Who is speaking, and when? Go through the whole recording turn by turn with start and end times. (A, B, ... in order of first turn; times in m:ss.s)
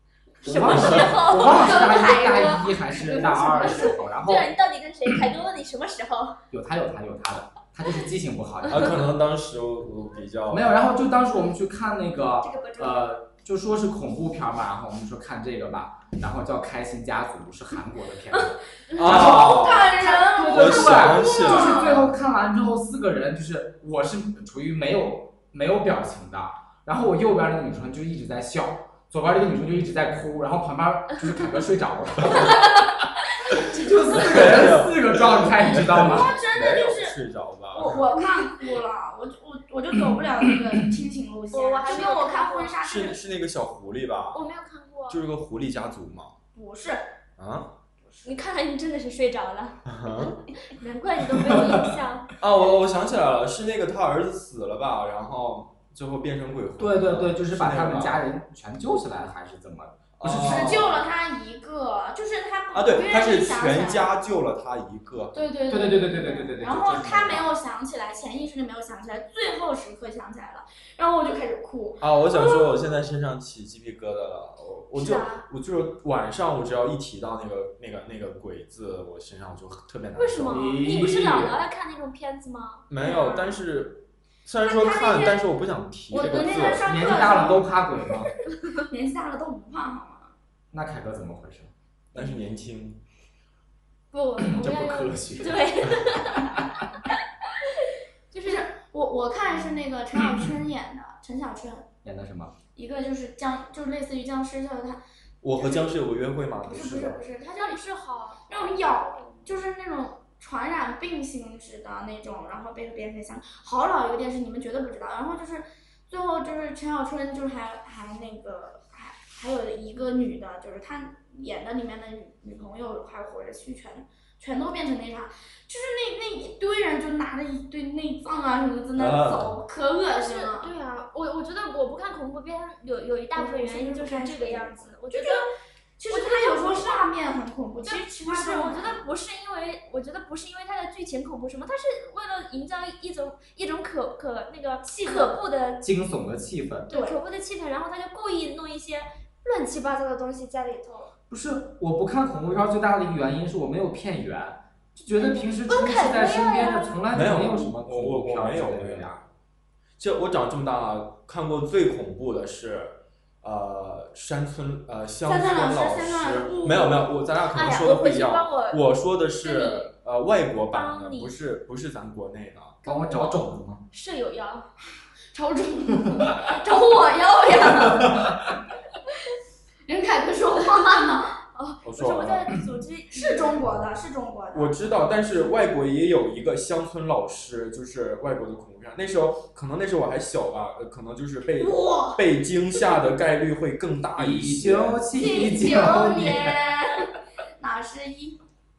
0:00.4-0:04.5 A
0:00.4-0:06.4 B
0:00.5-0:01.2 C
0:01.4-0:03.9 D
0:06.5-0:09.1 A
0:08.7-0:10.8 C
0:10.5-0:32.8 A
0:12.4-0:13.1 B
0:18.9-0:22.2 C
0:19.0-0:22.1 D
0:33.5-0:36.3 A
0:34.2-0:38.1 C
0:35.9-0:37.2 D
0:37.7-0:43.2 D
0:38.2-0:38.5 B
0:41.5-0:42.8 B
0:42.8-0:44.4 C
0:44.3-0:45.2 B
0:45.1-0:46.4 C
0:46.5-0:47.1 D
0:47.4-0:47.7 C
0:48.0-0:48.3 D
0:48.2-0:52.3 B
0:49.9-0:50.4 C
0:51.4-0:51.8 A
0:52.4-0:58.2 C
0:56.8-1:01.0 A
1:00.2-1:01.0 C
1:00.4-1:04.1 D
1:02.7-1:05.4 C
1:05.3-1:12.0 D
1:05.7-1:07.4 A
1:06.8-1:07.4 C
1:12.0-1:21.4 C
1:14.9-1:15.4 B
1:20.1-1:22.9 B
1:20.5-1:21.6 A
1:22.9-1:27.1 C
1:23.0-1:23.6 D
1:24.6-1:25.5 D
1:26.1-1:27.7 D
1:26.8-1:28.3 A
1:28.8-1:30.3 D
1:30.7-1:31.7 A
1:32.1-1:33.0 C
1:34.1-1:36.6 B
1:34.4-1:36.7 A
1:38.3-1:38.6 B
1:38.3-1:41.9 D
1:42.0-1:42.6 A
1:42.8-1:45.0 D
1:45.4-1:47.2 C
1:45.6-1:45.9 D
1:46.6-1:47.8 D
1:47.5-1:49.5 B
1:48.5-2:10.7 D
2:09.0-2:09.6 C
2:10.1-2:15.4 B
2:13.3-2:15.5 D
2:16.0-2:19.0 D
2:16.1-2:17.1 B
2:17.8-2:25.8 B
2:24.9-2:25.3 D
2:25.8-2:26.9 A
2:26.9-2:27.2 D
2:26.9-2:31.1 B
2:31.3-2:39.2 A
2:35.2-2:37.0 B
2:37.1-2:39.2 C
2:40.0-2:52.8 C
2:45.2-2:47.1 D
2:47.5-2:48.8 B
2:49.4-2:49.9 B
2:50.7-2:51.4 B
2:52.8-2:54.7 B
2:52.8-2:53.8 A
2:55.3-2:58.4 D
2:59.9-3:01.3 D
3:01.4-3:03.6 B
3:01.8-3:02.6 C
3:03.1-3:04.8 D
3:04.5-3:15.1 C
3:11.6-3:12.2 D
3:14.1-3:16.6 A
3:15.2-3:18.4 D
3:15.2-3:16.5 B